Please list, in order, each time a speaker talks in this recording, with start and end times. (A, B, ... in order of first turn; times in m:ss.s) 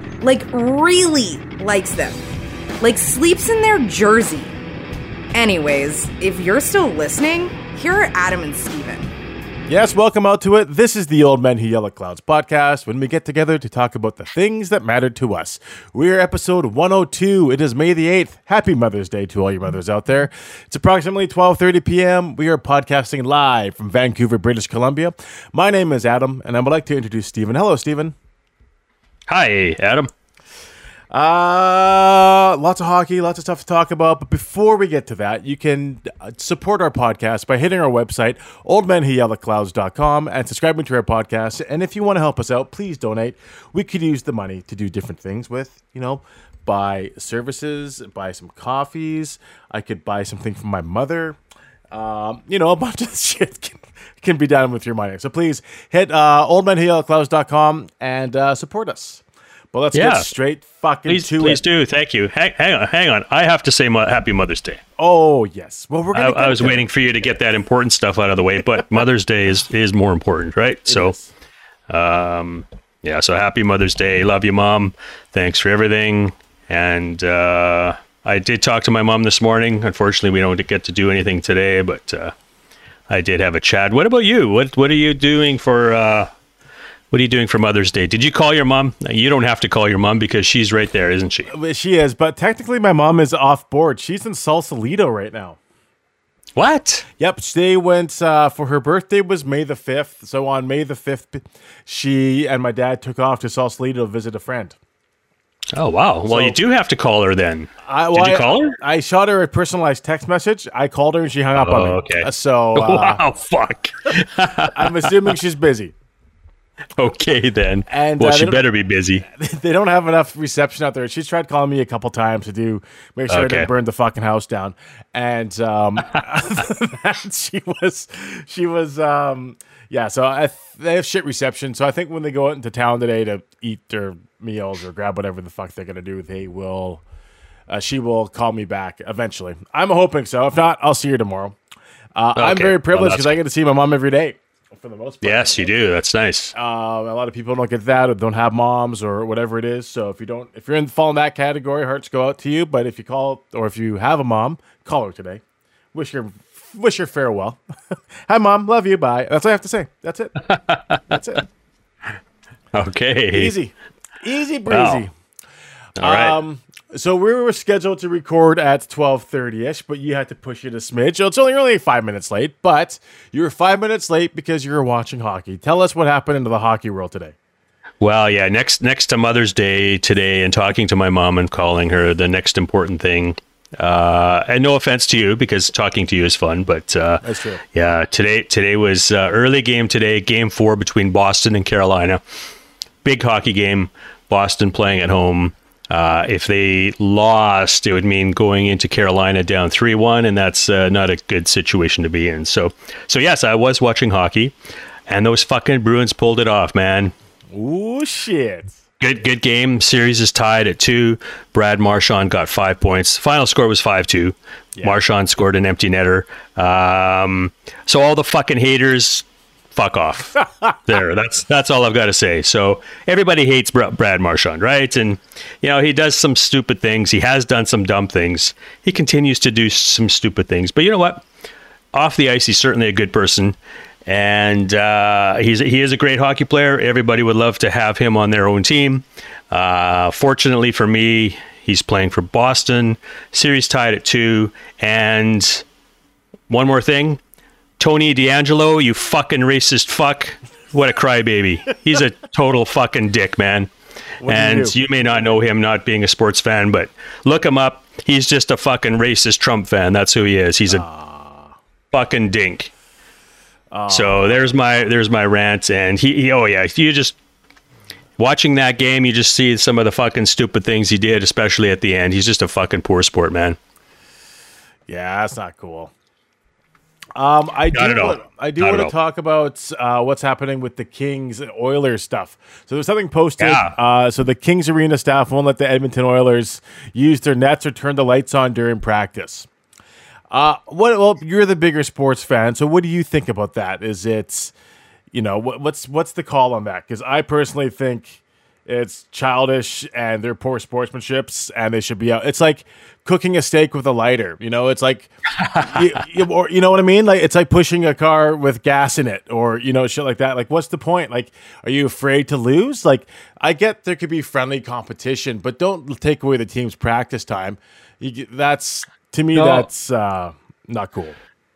0:00.2-0:02.3 A
0:02.8-0:04.5 A
0:05.3-0:09.1 A
0:09.7-0:28.1 B
0:29.3-0:30.1 C
0:31.1-0:51.4 B
0:51.9-1:01.6 B
0:59.9-1:00.3 C
1:01.1-1:04.8 C
1:05.0-1:06.8 B
1:06.1-1:11.2 C
1:10.9-1:11.3 B
1:11.9-1:22.4 C
1:23.1-1:26.3 C
1:27.1-1:31.5 C
1:31.5-1:35.6 B
1:36.6-1:37.0 C
1:37.2-1:44.8 B
1:45.7-1:48.8 C
1:46.3-1:46.6 B
1:47.8-1:53.2 B
1:51.6-1:55.3 C
1:54.7-1:55.9 B
1:57.0-1:59.3 C
1:57.9-1:58.6 B
1:59.3-2:17.0 B
2:03.3-2:03.7 C
2:17.7-2:21.6 B
2:22.2-2:25.7 B
2:22.4-2:23.4 C
2:25.2-2:26.5 C
2:26.5-2:35.4 B
2:35.9-2:37.6 B
2:38.3-2:40.5 B
2:40.5-2:41.0 C
2:41.1-2:41.5 B
2:42.7-2:43.5 C
2:43.3-2:45.1 B
2:44.7-2:45.0 C
2:46.0-2:46.4 C
2:46.0-2:57.4 B
2:58.0-3:12.2 C
3:07.2-3:07.6 B
3:13.0-3:24.6 C
3:25.1-3:27.1 C
3:27.5-3:28.8 B
3:29.0-3:51.2 C
3:51.9-4:05.6 C
4:06.5-4:07.2 C
4:07.8-4:13.7 C
4:14.2-4:14.8 B
4:14.3-4:20.8 C
4:20.7-4:21.6 B
4:21.9-4:22.7 C
4:23.7-4:24.5 B
4:23.9-4:27.2 C
4:28.2-4:33.6 C
4:34.9-4:35.9 B
4:37.2-4:49.5 B
4:37.7-4:38.9 C
4:43.4-4:43.7 C
4:50.3-4:54.5 B
4:55.1-5:21.2 B
5:05.4-5:05.9 C
5:19.3-5:19.7 C